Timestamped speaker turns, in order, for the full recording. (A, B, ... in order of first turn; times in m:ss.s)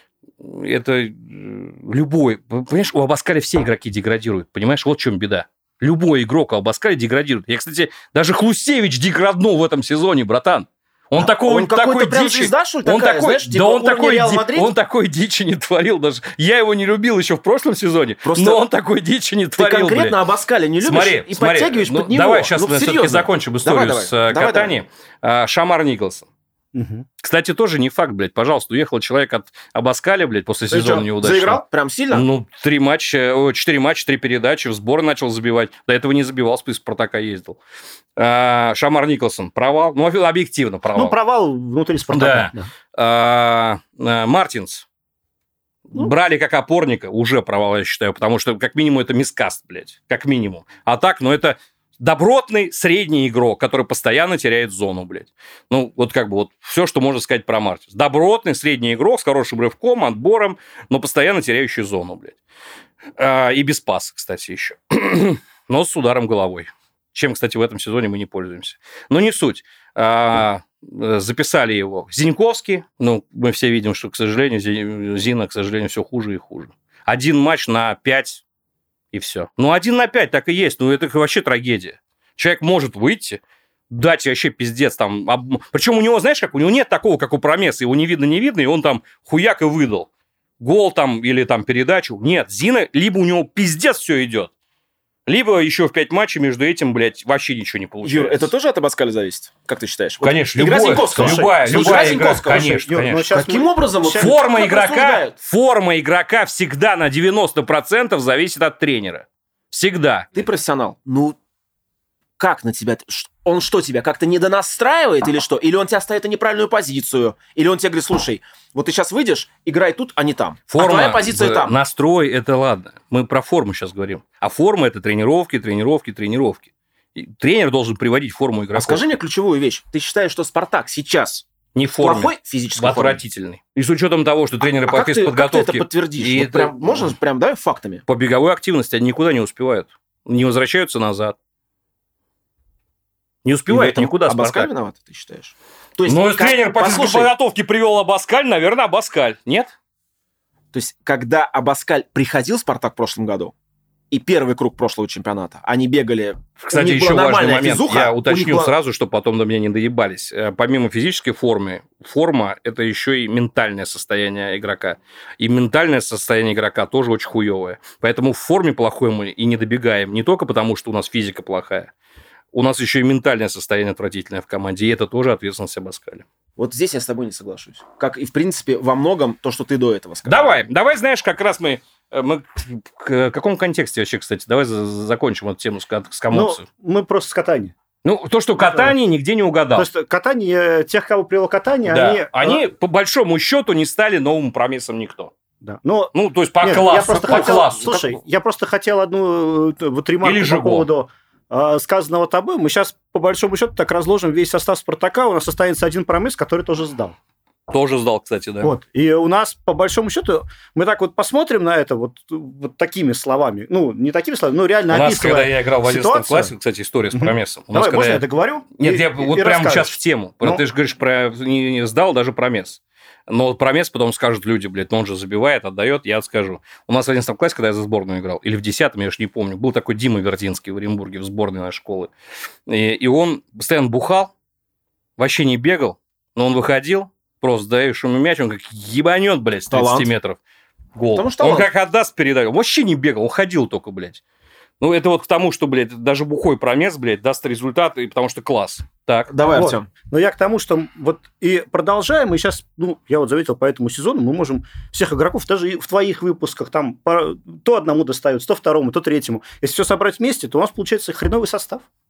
0:00.4-0:20.2 A
0:11.2-0:14.7 B
0:18.2-0:18.6 B
0:19.6-0:24.7 B
0:20.8-0:26.3 A
0:26.7-0:27.1 C
0:27.2-0:37.6 A
0:30.7-0:32.3 B
0:38.2-0:41.2 A
0:41.0-0:42.7 C
0:42.1-0:44.8 A
0:45.9-1:02.4 A
1:03.2-1:18.4 A
1:19.1-1:30.1 A
1:30.6-1:34.5 A
1:35.3-1:38.5 A
1:38.0-1:45.3 B
1:40.2-1:43.4 A
1:42.5-1:44.3 C
1:44.2-1:50.3 A
1:50.3-1:51.4 B
1:52.4-2:01.8 B
2:00.7-2:09.0 A
2:08.8-2:11.5 B
2:11.8-2:17.1 A
2:12.0-2:13.2 B
2:14.9-2:18.0 B
2:18.1-2:21.4 A
2:23.4-2:24.7 A
2:23.7-2:27.3 B
2:26.1-2:29.7 A
2:30.7-2:33.5 B
2:34.1-2:38.7 B
2:36.6-2:51.9 A
2:52.5-2:56.2 A
2:56.6-3:00.6 B
3:00.3-3:06.6 A
3:06.3-3:07.7 C
3:08.0-3:09.9 A
3:08.6-3:09.0 C
3:09.8-3:12.6 C
3:11.9-3:15.3 A
3:15.6-3:27.2 C
3:16.2-3:18.1 A
3:17.1-3:18.0 B
3:20.2-3:20.9 A
3:27.7-3:28.7 A
3:28.6-3:36.5 C
3:34.9-3:38.3 A
3:37.1-3:40.6 C
3:38.8-3:52.1 A
3:52.7-3:54.3 A
3:55.2-4:00.4 A
3:59.7-4:00.1 B
4:01.0-4:04.2 A
4:01.1-4:01.7 B
4:04.8-4:09.3 A
4:09.3-4:09.9 B
4:09.5-4:21.8 C